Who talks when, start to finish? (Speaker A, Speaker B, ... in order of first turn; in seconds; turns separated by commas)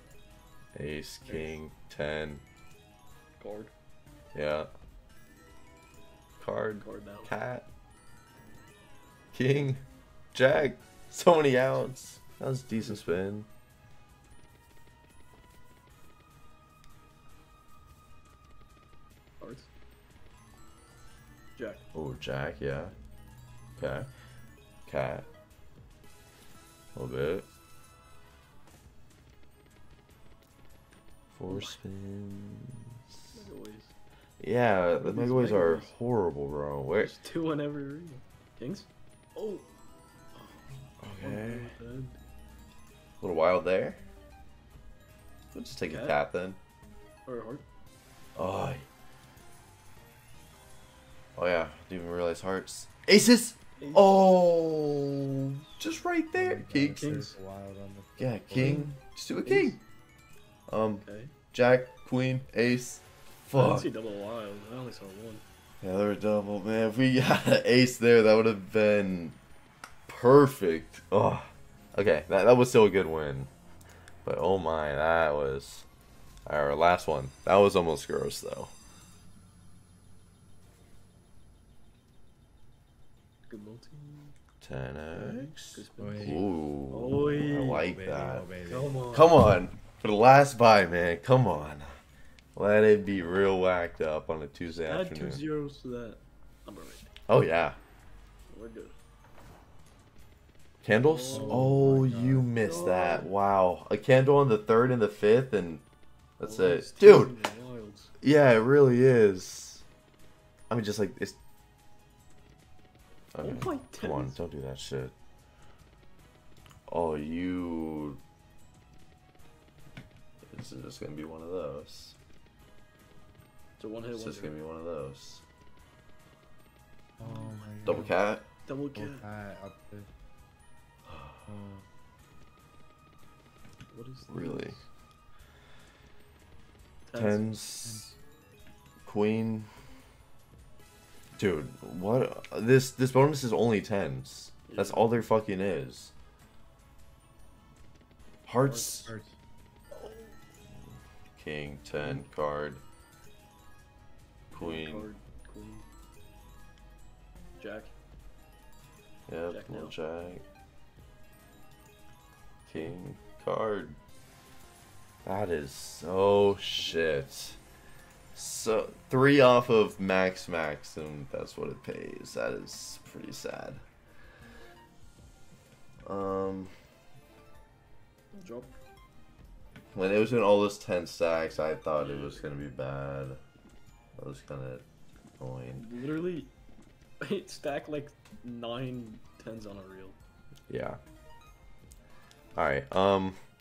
Speaker A: 0.8-2.4, Speaker B: 1.3-1.6, Speaker B: 3.4-3.7, Speaker A: 4.3-4.7, Speaker A: 6.4-7.7, Speaker B: 6.8-7.3, Speaker A: 9.3-9.8, Speaker A: 10.3-13.5, Speaker B: 12.8-13.2, Speaker B: 19.4-19.7, Speaker B: 21.6-21.9, Speaker A: 21.9-22.9, Speaker A: 23.8-24.1, Speaker A: 24.9-25.3, Speaker A: 26.9-27.5, Speaker A: 31.3-33.0, Speaker B: 31.5-31.8, Speaker B: 33.3-33.9, Speaker A: 34.4-37.1, Speaker B: 35.0-35.9, Speaker B: 36.9-39.7, Speaker B: 40.4-42.2, Speaker A: 41.0-41.7, Speaker A: 43.2-44.0, Speaker A: 45.5-46.6, Speaker B: 45.9-46.2, Speaker B: 47.3-47.6, Speaker A: 48.4-48.9, Speaker A: 51.4-57.1, Speaker B: 53.8-54.3, Speaker C: 56.3-58.9, Speaker B: 56.9-57.4, Speaker A: 58.2-59.8, Speaker B: 58.6-59.8, Speaker A: 60.7-63.9, Speaker B: 61.0-61.3, Speaker B: 63.5-65.4, Speaker A: 65.8-69.4, Speaker A: 70.1-73.5, Speaker A: 74.2-75.9, Speaker A: 76.5-78.7, Speaker B: 83.5-84.3, Speaker A: 84.6-88.5, Speaker B: 85.1-87.9, Speaker C: 86.0-86.4, Speaker C: 87.8-89.1, Speaker B: 88.7-89.4, Speaker A: 89.1-91.9, Speaker A: 92.5-95.4, Speaker B: 94.9-97.1, Speaker A: 97.3-97.8, Speaker B: 98.5-99.0, Speaker A: 100.8-105.8, Speaker B: 100.9-101.7, Speaker C: 101.3-102.5, Speaker B: 102.6-103.3, Speaker A: 106.4-107.4, Speaker B: 106.4-108.1, Speaker A: 108.2-109.8, Speaker A: 110.7-111.4, Speaker A: 113.3-115.1, Speaker B: 113.4-114.4, Speaker A: 116.9-118.2, Speaker A: 120.5-122.2, Speaker B: 123.8-124.6, Speaker A: 124.1-125.4, Speaker C: 127.2-128.1, Speaker B: 127.2-128.0, Speaker A: 127.8-128.4, Speaker B: 128.7-129.3, Speaker C: 128.9-130.1, Speaker A: 131.1-131.5, Speaker C: 131.5-131.8, Speaker B: 133.9-134.8, Speaker A: 134.3-134.8, Speaker B: 137.1-137.5, Speaker A: 137.2-138.1, Speaker A: 139.1-139.7, Speaker A: 141.4-146.1, Speaker B: 144.7-145.1, Speaker A: 148.5-149.1, Speaker B: 148.6-149.1, Speaker C: 149.1-149.3, Speaker B: 150.0-150.3, Speaker A: 151.4-152.8, Speaker B: 151.9-152.3, Speaker A: 154.5-155.1, Speaker B: 154.6-155.8, Speaker B: 157.6-157.9, Speaker A: 159.3-160.4, Speaker B: 159.5-160.0, Speaker A: 162.7-164.0, Speaker A: 165.2-167.6, Speaker A: 168.3-173.8, Speaker A: 176.0-176.7, Speaker B: 178.3-178.8, Speaker A: 179.9-183.4, Speaker B: 182.0-182.5, Speaker A: 184.2-184.8, Speaker A: 185.4-185.8, Speaker B: 185.8-186.5, Speaker B: 187.2-190.2, Speaker A: 190.7-191.0, Speaker A: 192.6-193.4